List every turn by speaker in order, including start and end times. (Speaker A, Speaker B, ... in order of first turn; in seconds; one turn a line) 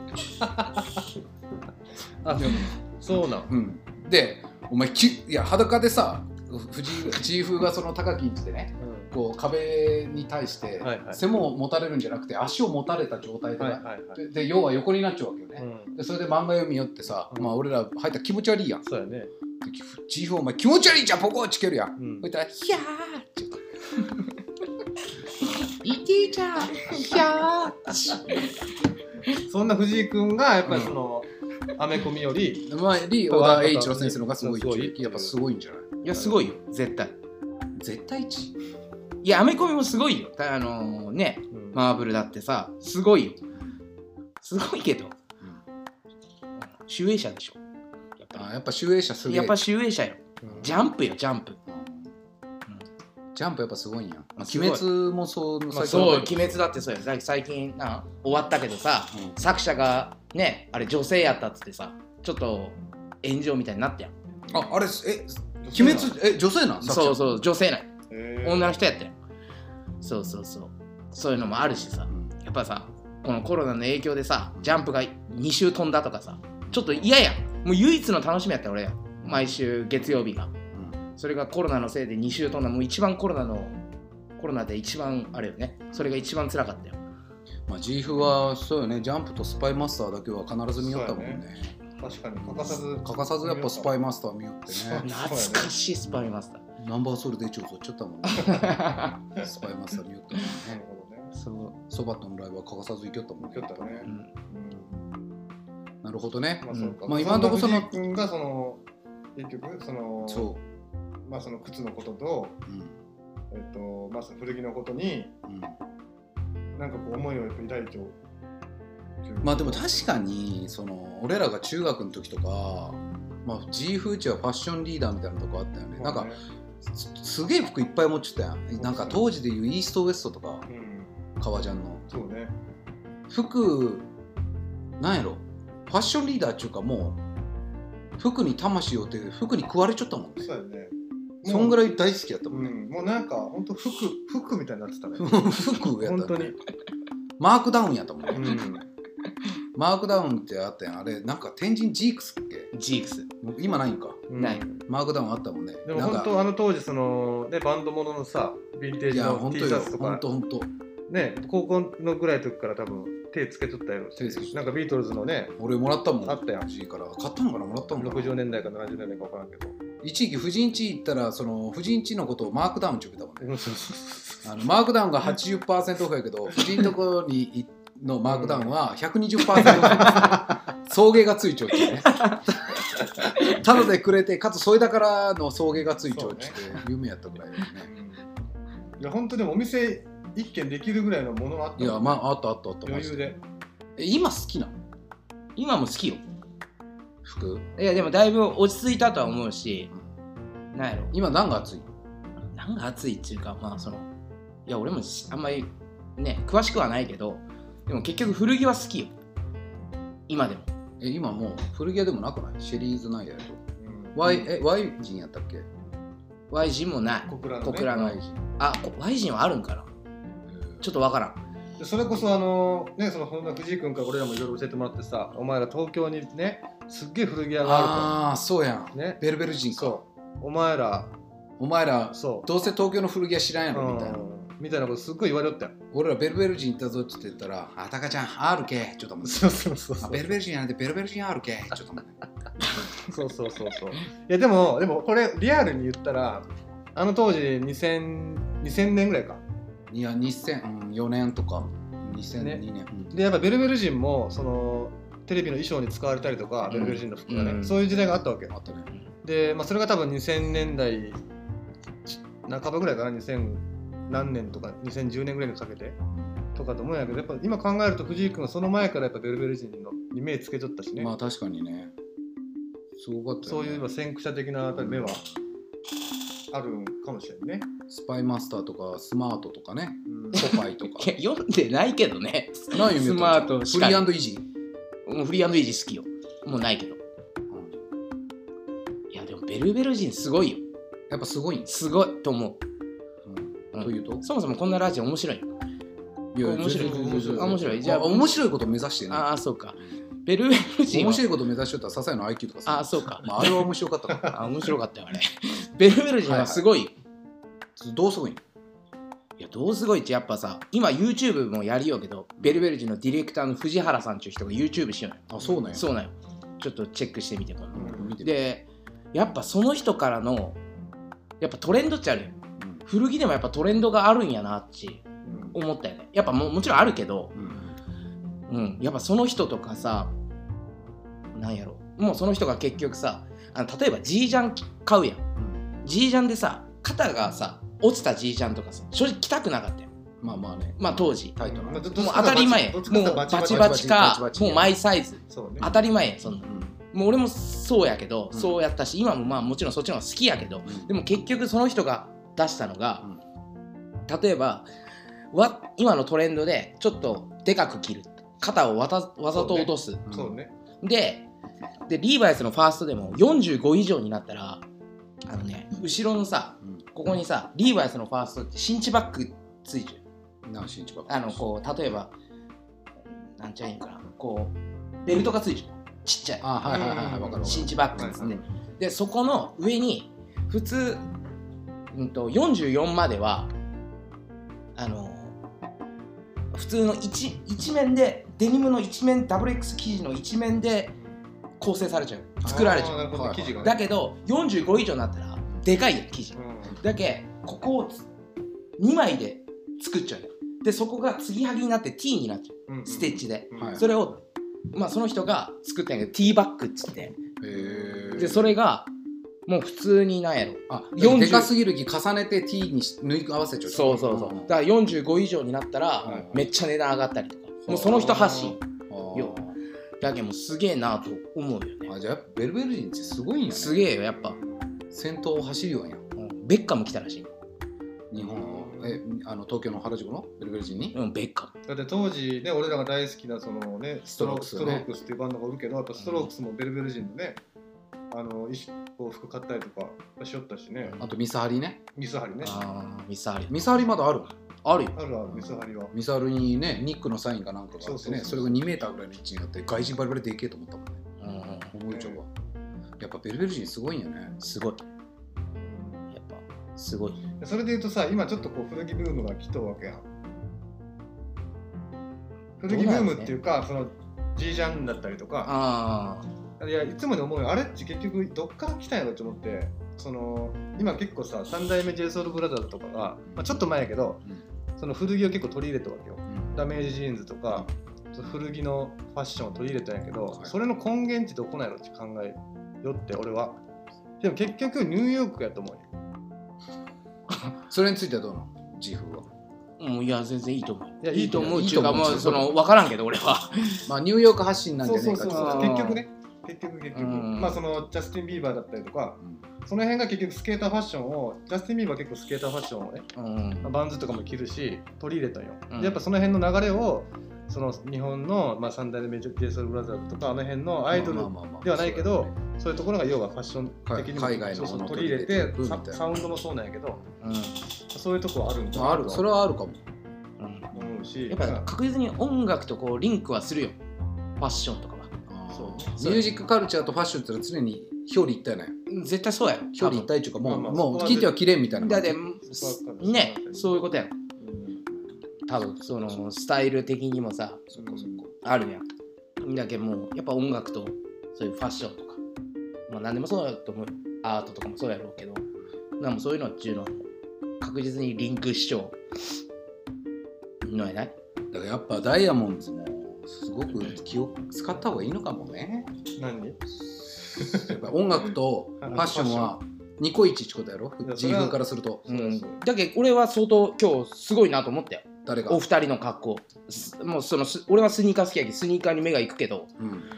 Speaker A: 0.4-0.8
Speaker A: 2.2-3.5
Speaker B: 2.3-2.7
Speaker B: 3.5-18.8
Speaker A: 8.8-9.1
Speaker A: 10.8-11.2
Speaker A: 13.6-14.2
Speaker A: 15.6-15.9
Speaker A: 17.3-17.6
Speaker A: 18.8-19.3
Speaker B: 19.6-23.6
Speaker A: 22.0-22.3
Speaker B: 25.8-28.5
Speaker C: 26.8-27.3
Speaker C: 27.9-28.5
Speaker A: 29.4-32.7
Speaker B: 30.7-30.9
Speaker B: 32.7-36.0
Speaker A: 33.3-35.3
Speaker C: 36.0-37.1
Speaker A: 36.1-36.5
Speaker B: 37.8-38.5
Speaker C: 39.2-43.4
Speaker A: 41.5-41.8
Speaker C: 44.4-45.1
Speaker C: 46.9-47.6
Speaker C: 48.2-48.4
Speaker B: 48.4-49.6
Speaker C: 49.2-51.6
Speaker A: 50.4-50.7
Speaker B: 50.5-50.8
Speaker B: 51.7-52.1
Speaker B: 53.3-56.6
Speaker A: 54.4-54.8
Speaker A: 55.7-56.4
Speaker C: 55.8-64.1
Speaker B: 59.1-59.4
Speaker B: 64.5-67.2
Speaker A: 65.6-66.2
Speaker C: 66.8-67.9
Speaker A: 68.1-68.8
Speaker C: 68.4-69.1
Speaker C: 70.0-80.5
Speaker B: 74.6-74.8
Speaker B: 76.6-77.0
Speaker B: 79.2-79.6
Speaker B: 80.7-81.0
Speaker C: 81.2-83.8
Speaker C: 84.4-87.0
Speaker B: 87.7-91.8
Speaker A: 90.8-91.4
Speaker A: 92.0-93.9
Speaker B: 92.4-95.0
Speaker A: 94.7-95.7
Speaker C: 95.0-96.6
Speaker B: 96.1-100.8
Speaker C: 98.3-99.2
Speaker A: 100.5-101.3
Speaker C: 101.3-101.8
Speaker B: 101.9-104.1
Speaker A: 103.5-105.0
Speaker B: 106.0-108.0
Speaker A: 106.6-108.8
Speaker A: 109.3-110.5
Speaker B: 110.2-110.6
Speaker A: 111.2-112.6
Speaker B: 112.7-113.0
Speaker A: 113.5-115.3
Speaker B: 115.5-115.8
Speaker A: 116.8-118.2
Speaker A: 119.2-120.0
Speaker B: 119.4-130.7
Speaker A: 126.0-126.4
Speaker A: 128.8-129.2
Speaker A: 130.7-131.1
Speaker B: 131.4-132.1
Speaker A: 132.1-132.5
Speaker B: 133.3-134.1
Speaker B: 135.0-137.2
Speaker B: 138.2-140.5
Speaker A: 140.4-141.9
Speaker B: 141.4-142.8
Speaker A: 142.5-146.6
Speaker B: 145.2-146.6
Speaker B: 147.4-148.7
Speaker A: 148.3-148.9
Speaker B: 149.7-152.7
Speaker C: 152.7-153.3
Speaker B: 153.4-156.3
Speaker A: 154.3-154.8
Speaker A: 155.8-160.2
Speaker B: 159.1-160.7
Speaker A: 161.1-165.6
Speaker B: 164.2-164.8
Speaker B: 165.6-168.4
Speaker A: 166.2-166.7
Speaker A: 168.0-169.8
Speaker B: 170.0-173.5
Speaker A: 173.4-174.4
Speaker B: 174.4-182.2
Speaker A: 178.2-178.7
Speaker A: 179.6-180.6
Speaker C: 182.1-182.4
Speaker B: 183.4-187.9
Speaker A: 186.1-186.6
Speaker A: 187.9-188.2
Speaker A: 189.0-192.2
Speaker B: 191.8-193.3
Speaker A: 192.8-193.4
Speaker B: 194.0-194.7
Speaker C: 195.6-196.2
Speaker B: 197.2-197.7
Speaker C: 197.8-199.9
Speaker C: 200.7-201.1
Speaker B: 201.1-201.9
Speaker C: 202.5-204.1
Speaker C: 204.7-209.1
Speaker C: 210.3-210.7
Speaker B: 211.0-213.6
Speaker A: 213.8-214.5
Speaker B: 214.1-215.7
Speaker C: 216.5-219.9
Speaker A: 217.3-217.9
Speaker B: 217.9-218.4
Speaker B: 220.5-220.8
Speaker C: 220.8-221.4
Speaker A: 221.8-228.1
Speaker B: 227.6-230.0
Speaker A: 228.9-231.1
Speaker B: 231.6-234.2
Speaker A: 232.1-232.5
Speaker A: 233.7-235.8
Speaker B: 235.9-242.2
Speaker A: 239.2-240.3
Speaker A: 243.0-249.4
Speaker B: 249.9-253.1
Speaker A: 252.3-258.5
Speaker C: 256.7-257.8
Speaker B: 258.5-258.9
Speaker A: 259.2-261.2
Speaker A: 262.1-266.0
Speaker A: 266.5-271.1
Speaker B: 271.0-271.9
Speaker B: 273.0-273.9
Speaker A: 273.4-275.2
Speaker B: 274.8-275.2
Speaker A: 276.5-277.7
Speaker B: 277.9-281.1
Speaker A: 280.1-280.4
Speaker C: 280.3-284.1
Speaker B: 282.7-284.4
Speaker C: 285.1-287.0
Speaker B: 287.5-287.8
Speaker C: 289.1-290.6
Speaker B: 291.1-291.7
Speaker C: 291.7-292.6
Speaker B: 293.2-294.2
Speaker C: 293.7-295.5
Speaker B: 296.3-299.3
Speaker C: 296.4-298.4
Speaker A: 296.7-297.6
Speaker C: 299.1-301.2
Speaker B: 300.9-304.4
Speaker C: 302.6-303.5
Speaker C: 304.2-306.9
Speaker B: 306.2-306.6
Speaker B: 307.8-308.4
Speaker C: 309.4-320.6
Speaker B: 315.3-315.9
Speaker A: 315.4-315.7
Speaker B: 317.7-318.3
Speaker A: 317.8-318.1
Speaker C: 321.4-327.3
Speaker B: 322.6-322.8
Speaker A: 325.2-325.6
Speaker B: 327.3-327.8
Speaker C: 328.5-330.1
Speaker C: 331.3-335.2
Speaker B: 335.4-335.6
Speaker C: 335.8-339.9
Speaker B: 340.2-342.1
Speaker C: 340.8-341.4
Speaker A: 341.4-343.8
Speaker C: 341.9-353.1
Speaker B: 343.4-344.8
Speaker A: 345.3-345.6
Speaker B: 346.4-346.8
Speaker B: 348.3-348.6
Speaker B: 350.6-350.9
Speaker C: 354.1-354.7
Speaker C: 355.3-360.0
Speaker A: 359.3-360.5
Speaker B: 360.1-360.4
Speaker C: 360.8-361.3
Speaker C: 361.9-364.6
Speaker C: 365.2-370.0
Speaker B: 370.4-371.5
Speaker C: 371.1-372.1
Speaker C: 373.4-376.5
Speaker B: 376.4-378.4
Speaker A: 376.6-378.3
Speaker C: 377.4-381.1
Speaker C: 381.9-383.5
Speaker C: 384.8-385.3
Speaker C: 386.5-390.9
Speaker C: 391.6-393.0
Speaker B: 392.4-393.7
Speaker A: 392.4-393.8
Speaker C: 393.6-398.1
Speaker A: 396.3-396.8
Speaker C: 398.8-404.2
Speaker A: 402.7-403.8
Speaker B: 403.6-403.8
Speaker C: 404.7-407.2
Speaker B: 407.4-408.5
Speaker A: 407.5-408.4
Speaker C: 408.2-408.9
Speaker C: 409.5-411.5
Speaker B: 410.7-414.6
Speaker C: 413.7-418.6
Speaker B: 416.0-416.5
Speaker B: 417.6-419.6
Speaker A: 417.9-418.6
Speaker C: 419.1-419.4
Speaker C: 420.0-421.9
Speaker B: 421.9-423.8
Speaker C: 423.5-424.4
Speaker A: 424.1-424.5
Speaker B: 424.9-426.0
Speaker C: 426.2-427.3
Speaker B: 428.1-430.9
Speaker A: 428.1-429.0
Speaker C: 430.9-431.5
Speaker A: 431.7-437.4
Speaker B: 434.1-434.9
Speaker C: 436.0-436.3
Speaker A: 438.1-441.0
Speaker B: 441.0-441.8
Speaker A: 441.9-442.6
Speaker C: 442.4-443.5
Speaker B: 443.5-444.3
Speaker C: 444.6-444.9
Speaker A: 444.9-445.9
Speaker B: 445.3-451.1
Speaker A: 447.8-448.6
Speaker C: 451.2-451.7
Speaker B: 451.7-452.3
Speaker A: 451.9-452.2
Speaker B: 453.0-454.4
Speaker C: 454.4-454.8
Speaker A: 455.6-456.0
Speaker C: 456.1-457.2
Speaker A: 457.4-460.1
Speaker A: 462.6-465.5
Speaker C: 462.7-463.3
Speaker C: 465.4-466.3
Speaker A: 466.6-474.2
Speaker B: 473.3-473.6
Speaker A: 474.8-483.6
Speaker B: 476.3-476.6
Speaker A: 484.2-485.9
Speaker B: 487.7-489.3
Speaker C: 489.8-493.9
Speaker A: 491.0-491.9
Speaker B: 491.3-492.5
Speaker B: 493.9-495.9
Speaker A: 494.8-503.1
Speaker C: 495.3-496.0
Speaker C: 496.9-497.6
Speaker C: 503.1-503.7
Speaker A: 503.6-517.0
Speaker C: 505.7-506.0
Speaker B: 510.9-512.3
Speaker B: 513.9-516.0
Speaker C: 517.2-517.6
Speaker A: 517.9-519.3
Speaker B: 518.7-519.8
Speaker C: 520.4-520.7
Speaker A: 520.7-521.7
Speaker C: 521.3-523.8
Speaker C: 524.4-525.1
Speaker B: 525.3-528.8
Speaker A: 525.5-525.9
Speaker C: 526.0-526.2
Speaker C: 528.9-530.1
Speaker B: 529.7-532.2
Speaker A: 530.4-531.4
Speaker C: 531.8-534.1
Speaker A: 532.4-533.9
Speaker A: 534.4-534.8
Speaker C: 535.5-537.6
Speaker B: 537.7-538.3
Speaker A: 537.8-538.2
Speaker C: 538.4-538.9
Speaker C: 539.4-542.2
Speaker C: 542.9-545.4
Speaker C: 546.0-547.1
Speaker C: 547.6-549.0
Speaker C: 550.6-551.1
Speaker B: 551.5-555.9
Speaker A: 556.2-556.6
Speaker B: 557.0-562.1
Speaker A: 557.3-557.8
Speaker A: 558.8-559.5
Speaker A: 561.0-562.6
Speaker C: 562.1-569.7
Speaker B: 565.2-565.6
Speaker B: 569.8-570.1